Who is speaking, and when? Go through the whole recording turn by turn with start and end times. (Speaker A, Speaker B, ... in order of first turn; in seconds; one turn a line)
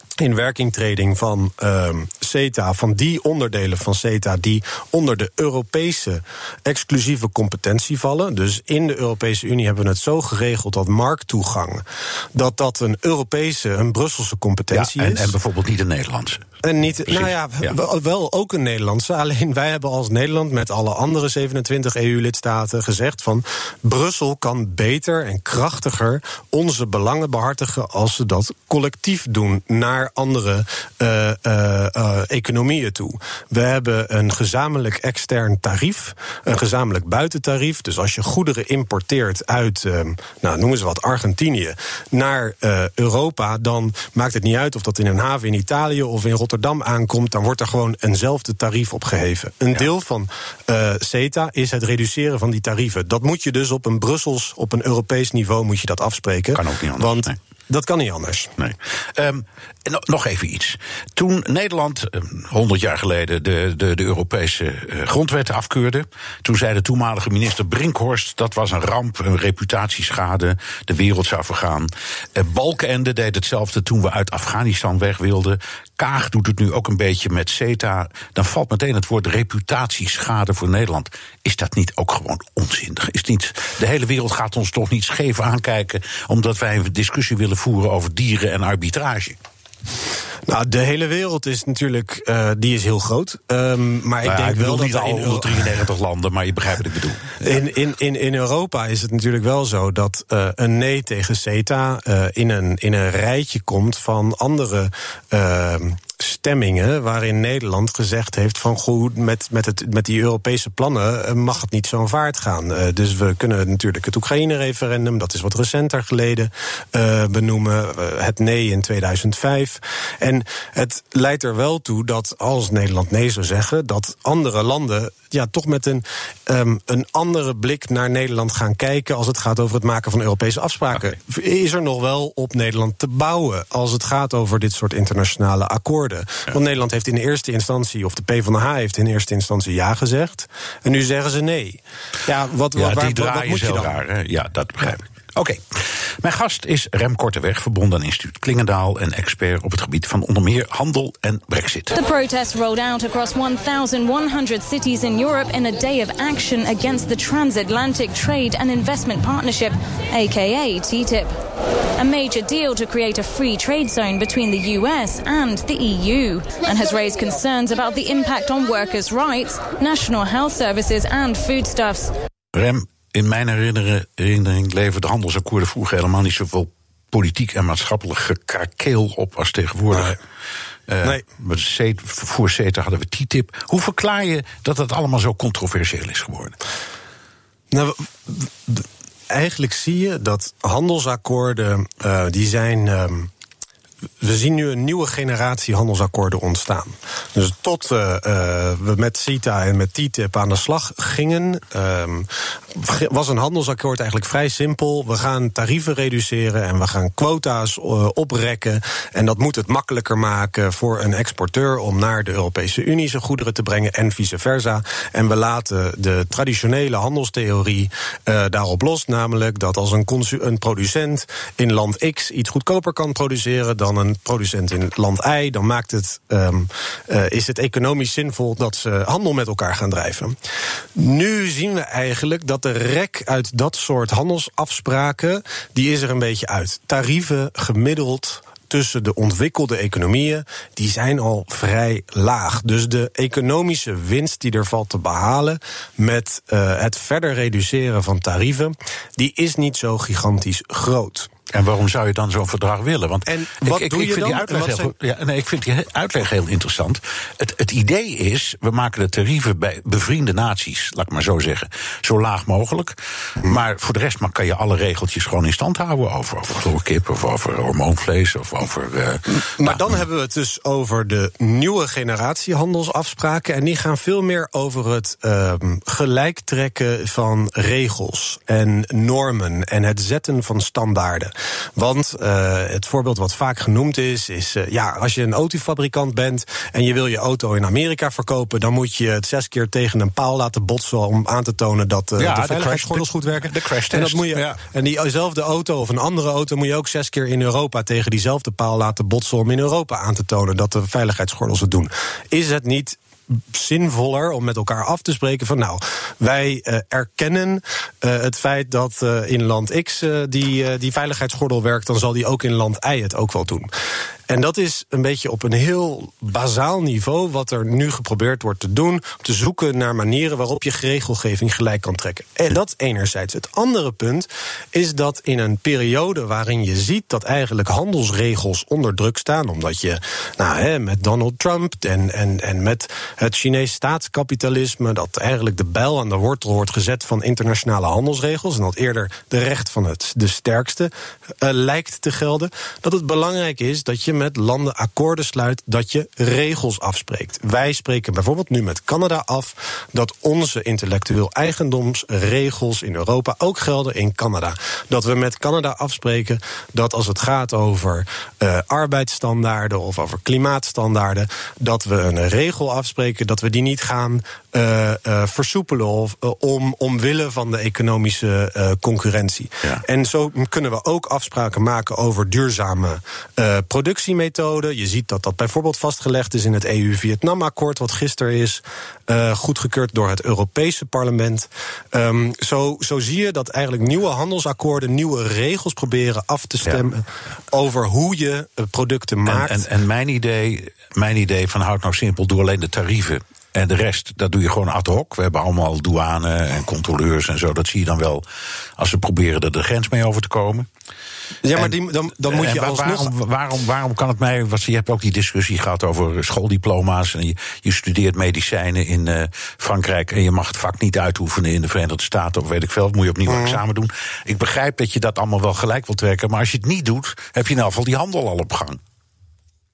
Speaker A: 0.2-11.8
Speaker A: 12.3-15.3
Speaker B: 14.7-16.5
Speaker A: 16.6-58.5
Speaker B: 17.1-17.8
Speaker B: 56.5-57.4
Speaker B: 58.6-89.4
Speaker A: 90.5-95.8
Speaker B: 94.2-97.4
Speaker A: 97.4-144.0
Speaker B: 142.7-152.0
Speaker C: 151.9-161.3
Speaker C: 162.0-172.1
Speaker B: 172.5-180.2
Speaker B: 180.9-186.6
Speaker A: 187.7-193.3
Speaker A: 194.2-230.3
Speaker A: 230.9-251.3
Speaker B: 251.5-269.9
Speaker A: 253.3-254.9
Speaker A: 269.4-313.7
Speaker B: 292.2-294.6
Speaker A: 314.3-389.6
Speaker B: 389.2-398.2
Speaker B: 398.8-400.7
Speaker A: 401.4-403.1
Speaker B: 402.2-418.8
Speaker A: 413.3-413.6